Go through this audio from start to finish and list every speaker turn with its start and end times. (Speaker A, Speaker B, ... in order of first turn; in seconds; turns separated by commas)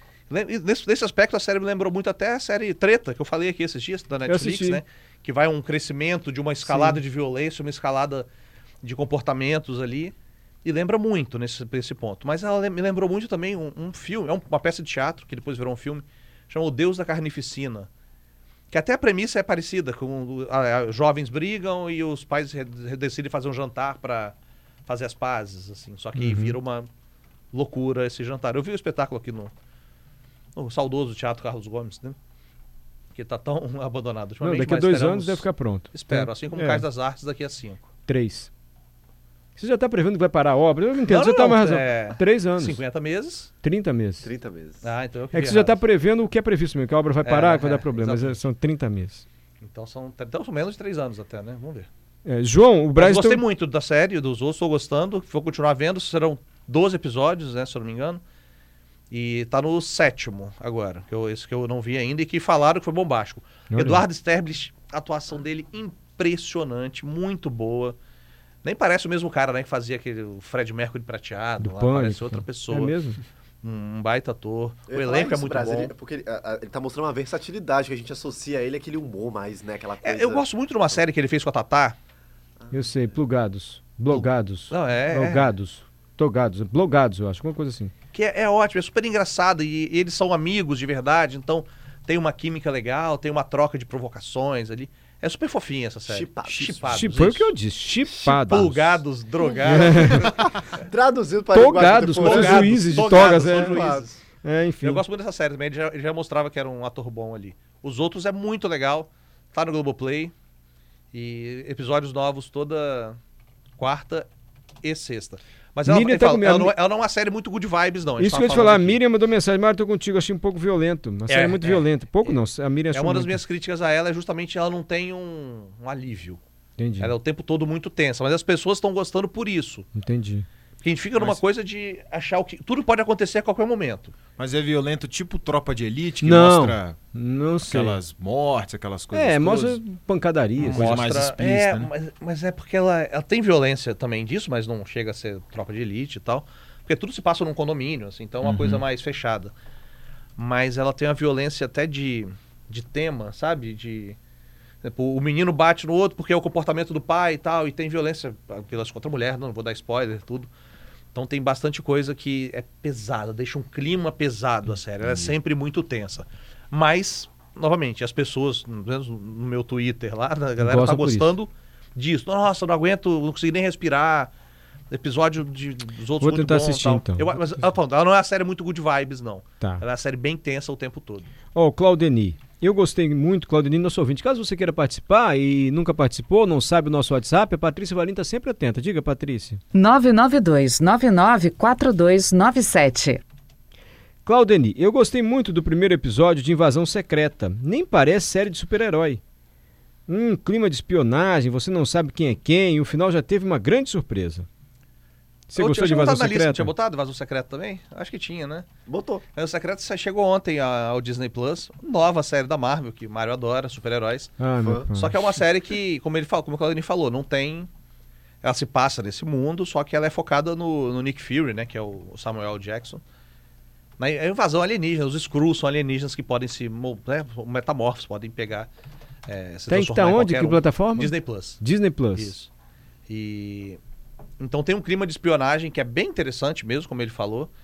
Speaker A: 0.3-8.3, Speaker B: 4.3-4.8, Speaker B: 6.7-7.0, Speaker A: 8.8-17.9, Speaker A: 18.7-24.3, Speaker A: 24.9-26.9, Speaker B: 26.1-26.6, Speaker A: 27.5-29.5, Speaker A: 30.5-32.2, Speaker A: 33.1-37.9, Speaker B: 34.4-36.8, Speaker B: 38.1-38.5, Speaker B: 39.6-42.8, Speaker A: 41.1-43.5, Speaker B: 43.6-44.3, Speaker C: 44.2-44.8, Speaker A: 44.8-45.8, Speaker B: 45.3-49.2, Speaker A: 47.2-48.4, Speaker A: 49.6-51.9, Speaker B: 52.2-53.4, Speaker A: 53.0-58.2, Speaker A: 59.1-68.0, Speaker B: 63.7-64.0, Speaker A: 68.6-72.9, Speaker B: 71.6-73.2, Speaker A: 73.6-75.9, Speaker C: 74.9-80.4, Speaker A: 80.0-82.0, Speaker B: 82.7-87.9, Speaker A: 84.1-85.5, Speaker A: 88.1-97.5, Speaker C: 96.1-97.0, Speaker B: 96.9-99.0, Speaker C: 98.1-98.4, Speaker A: 98.2-100.5, Speaker C: 99.5-104.1, Speaker B: 99.7-100.3, Speaker B: 101.5-103.8, Speaker A: 102.0-104.2, Speaker B: 104.4-105.0, Speaker A: 104.8-110.3, Speaker A: 111.1-113.2, Speaker A: 113.8-114.3, Speaker A: 114.8-119.0, Speaker B: 115.8-116.7, Speaker B: 118.2-123.4, Speaker A: 121.3-122.3, Speaker A: 122.9-126.4, Speaker B: 126.8-127.1, Speaker A: 127.0-129.9, Speaker B: 129.9-130.4, Speaker A: 130.8-134.1, Speaker D: 134.4-137.0, Speaker B: 136.2-138.0, Speaker D: 137.6-139.8, Speaker B: 139.1-141.0, Speaker D: 140.6-141.9, Speaker A: 140.6-149.5, Speaker D: 148.4-148.8, Speaker A: 150.4-154.2, Speaker A: 154.8-160.5, Speaker A: 161.1-174.3, Speaker B: 170.6-171.3, Speaker A: 174.9-181.3, Speaker B: 176.2-177.3, Speaker B: 181.5-189.6, Speaker E: 189.7-193.2, Speaker B: 194.2-199.2, Speaker B: 200.1-204.5, Speaker B: 205.5-206.7, Speaker A: 205.6-208.7, Speaker C: 208.9-209.2, Speaker A: 209.3-214.3, Speaker B: 214.4-215.2, Speaker A: 214.9-217.7, Speaker A: 218.4-223.0, Speaker A: 224.0-228.7, Speaker A: 229.2-231.6, Speaker B: 229.7-232.3, Speaker A: 232.1-232.5, Speaker A: 233.1-233.8, Speaker A: 234.4-237.5